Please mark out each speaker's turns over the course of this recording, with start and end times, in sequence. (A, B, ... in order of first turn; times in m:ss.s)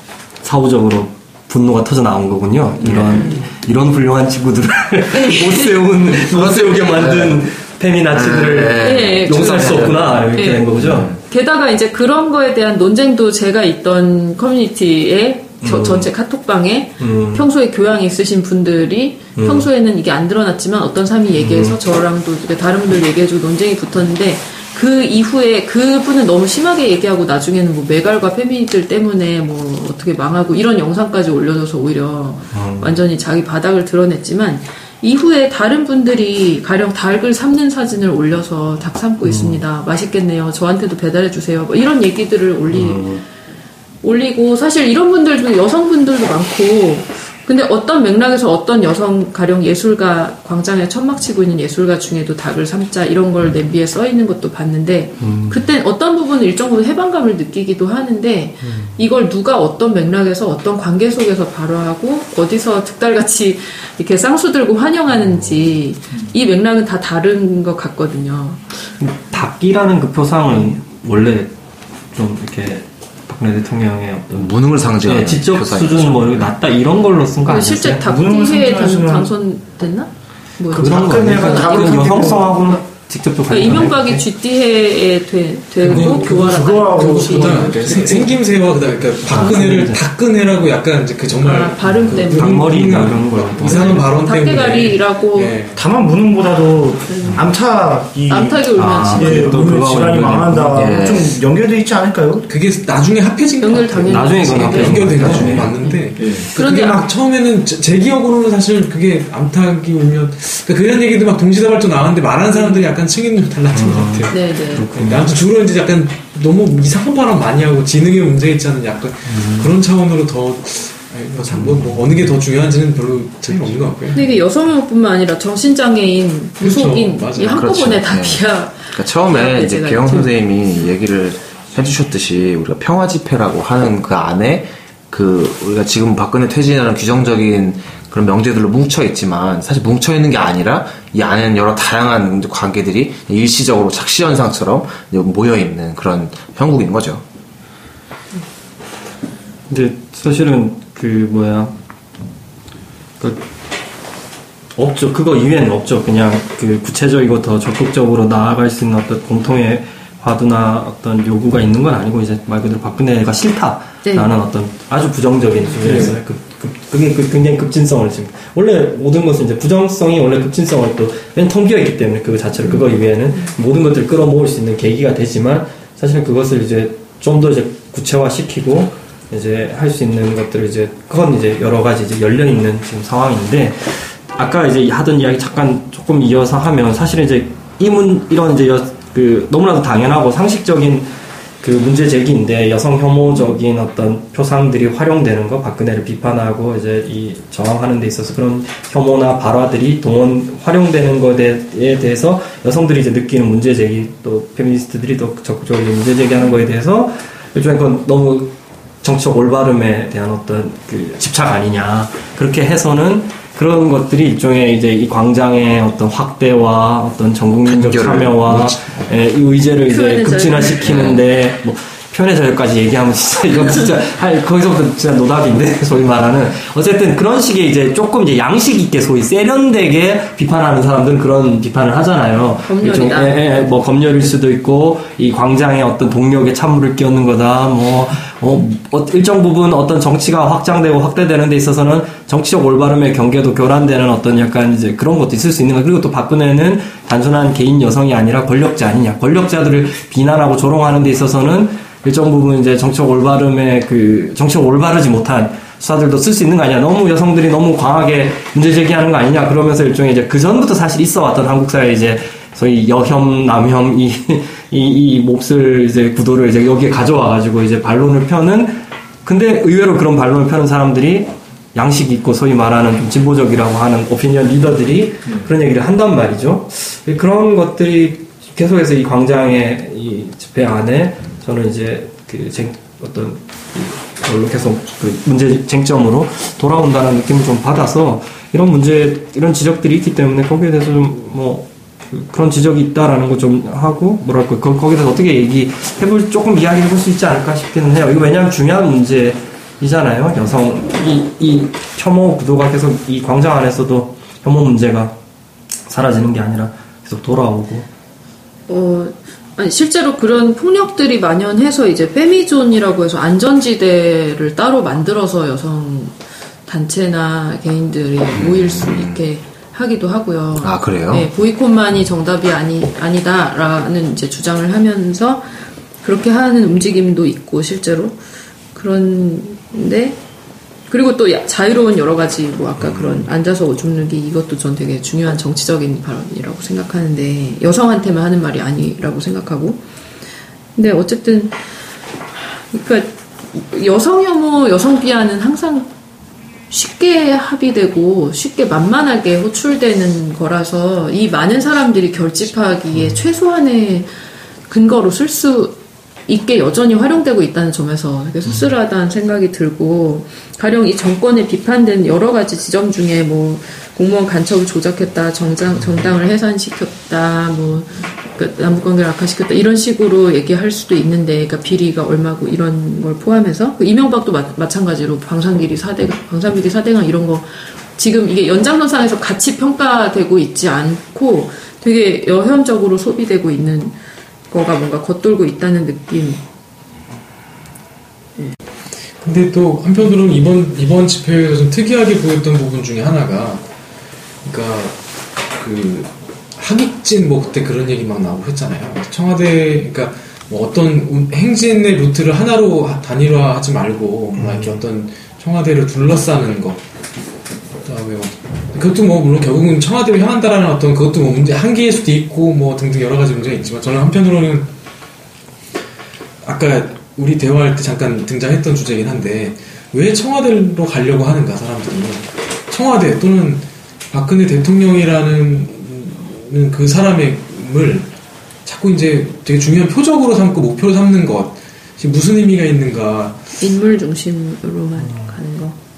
0:00.4-0:11.1 A
0:02.8-0:03.3 B
0:03.1-0:03.4 C
0:05.1-0:05.9 C
0:06.2-0:07.4 B
0:08.1-0:10.2 B
0:08.8-0:43.2 C
0:10.8-0:11.2 B
0:15.6-0:16.1 A
0:17.0-0:17.5 A
0:19.4-0:19.7 A
0:21.4-0:21.8 A
0:32.5-0:33.0 A
0:39.2-0:39.6 A
0:42.7-0:43.2 A
0:44.0-1:08.6 C
0:55.2-0:55.7 A
0:58.6-0:59.0 A
1:09.0-1:11.5 A
1:12.1-1:18.0 A
1:14.3-1:16.5 B
1:17.4-1:22.5 C
1:18.0-1:19.3 D
1:20.7-1:22.7 D
1:20.7-1:24.2 A
1:23.5-1:28.3 C
1:25.8-1:35.8 E
1:25.9-1:28.3 D
1:29.2-1:30.0 A
1:31.4-1:33.0 C
1:31.9-1:34.1 A
1:33.6-1:35.6 C
1:35.8-1:42.4 D
1:37.1-1:37.4 C
1:38.3-1:39.7 C
1:38.7-1:41.0 A
1:40.7-1:41.4 B
1:42.5-2:04.3 E
1:43.4-1:47.1 C
1:44.0-1:45.7 A
1:46.2-1:46.5 D
1:53.7-1:55.3 A
1:54.3-1:54.8 C
1:59.3-1:59.7 A
2:04.1-2:10.3 C
2:06.6-2:07.6 E
2:07.5-2:08.4 B
2:08.9-2:27.2 B
2:29.7-2:31.7 A
2:33.2-2:33.4 A
2:34.7-3:11.1 A
2:44.0-2:44.3 C
2:45.8-2:46.2 E
3:11.6-5:05.2 A
3:37.6-3:39.1 B
3:39.8-3:41.1 C
3:40.8-3:41.2 B
3:52.6-3:53.5 C
5:05.9-5:07.9 A
5:08.7-5:16.1 C
5:16.6-5:28.2 C
5:18.3-5:19.2 B
5:20.6-5:21.3 B
5:28.7-5:30.2 C
5:30.9-5:39.8 C
5:40.7-5:41.6 C
5:42.6-5:45.9 C
5:46.7-5:54.1 C
5:54.7-5:55.8 C
5:56.3-6:24.0 C
6:24.5-6:26.4 C
6:29.2-6:33.6 E
6:34.4-6:35.0 E
6:35.5-6:46.8 E
6:47.8-6:54.7 E
6:56.4-7:08.1 E
7:08.6-7:13.4 E
7:13.6-7:15.8 C